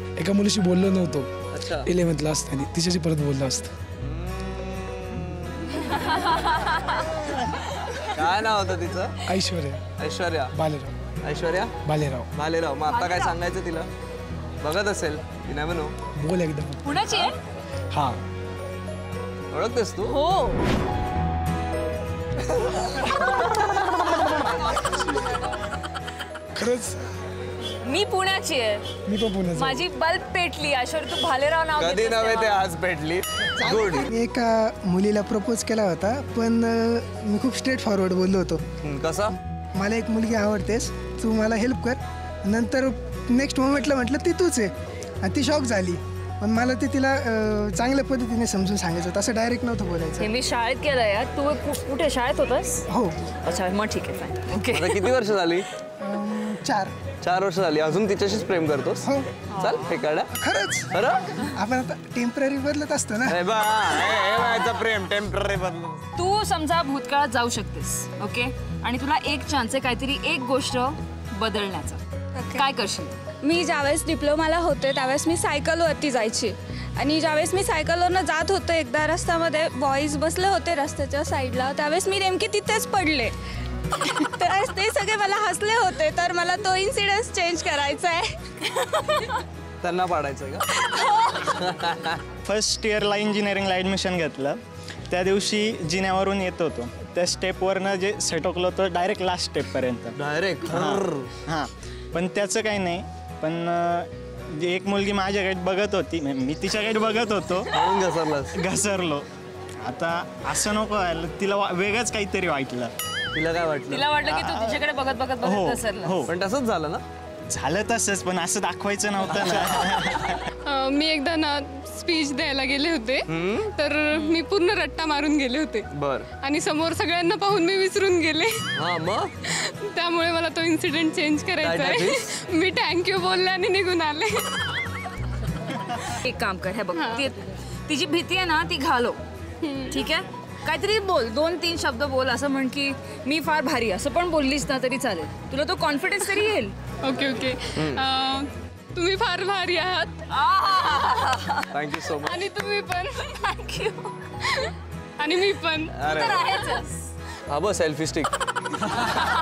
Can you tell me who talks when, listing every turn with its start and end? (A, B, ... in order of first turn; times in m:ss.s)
0:00.2-0:01.3 A
0:01.5-0:01.9 B
0:01.8-0:03.7 A
0:04.0-0:05.7 B
0:05.9-0:07.0 C
0:08.0-0:09.2 B
0:09.2-0:09.8 A
0:10.0-0:10.5 B
0:10.5-0:11.0 A
0:11.2-0:11.7 B
0:11.8-0:12.3 A
0:12.3-0:13.9 B
0:12.9-0:13.4 C
0:14.6-0:15.9 B
0:16.1-0:16.8 A
0:16.8-0:17.4 C
0:17.9-0:18.2 A
0:19.5-0:20.2 B
0:20.1-0:20.6 C
0:26.6-0:27.0 A
0:27.8-0:28.9 C
0:29.1-0:29.8 A
0:29.5-0:32.6 C
0:31.8-0:34.1 B
0:33.6-0:38.6 D
0:38.8-0:39.3 B
0:39.8-0:44.7 D
0:45.2-0:50.3 D
0:50.2-0:52.9 C
0:53.4-0:55.1 C
0:54.7-0:55.7 B
0:56.0-0:56.9 D
0:57.2-0:59.1 B
0:59.0-0:59.3 D
0:59.5-0:59.9 C
0:59.6-1:00.3 B
1:00.4-1:00.9 D
1:00.9-1:01.3 B
1:01.5-1:03.4 D
1:03.2-1:06.0 B
1:04.0-1:04.6 C
1:06.2-1:12.0 C
1:12.4-1:12.6 E
1:12.5-1:13.1 C
1:13.4-1:23.4 E
1:23.9-1:28.5 E
1:29.8-1:30.6 B
1:31.0-1:31.3 E
1:31.5-1:32.2 B
1:32.4-1:47.8 F
1:40.2-1:41.3 B
1:47.7-1:48.5 B
1:48.5-1:49.2 F
1:49.8-1:52.9 F
1:53.3-1:54.1 B
1:53.9-1:56.3 C
1:54.2-1:54.8 F
1:55.4-1:56.3 F
1:56.3-1:57.0 B
1:57.5-2:00.4 F
1:59.2-2:00.0 B
2:00.6-2:05.9 G
2:03.3-2:03.7 B
2:05.9-2:06.3 B
2:06.4-2:08.6 G
2:08.8-2:09.3 B
2:09.5-2:14.5 G
2:11.6-2:12.2 B
2:16.2-2:19.2 C
2:16.9-2:17.2 G
2:19.6-2:20.0 G
2:19.9-2:26.7 C
2:27.0-2:30.1 G
2:27.8-2:28.0 B
2:30.3-2:31.6 C
2:31.7-2:32.4 B
2:32.2-2:36.0 G
2:35.9-2:36.5 B
2:36.0-2:37.0 C
2:37.5-2:38.3 B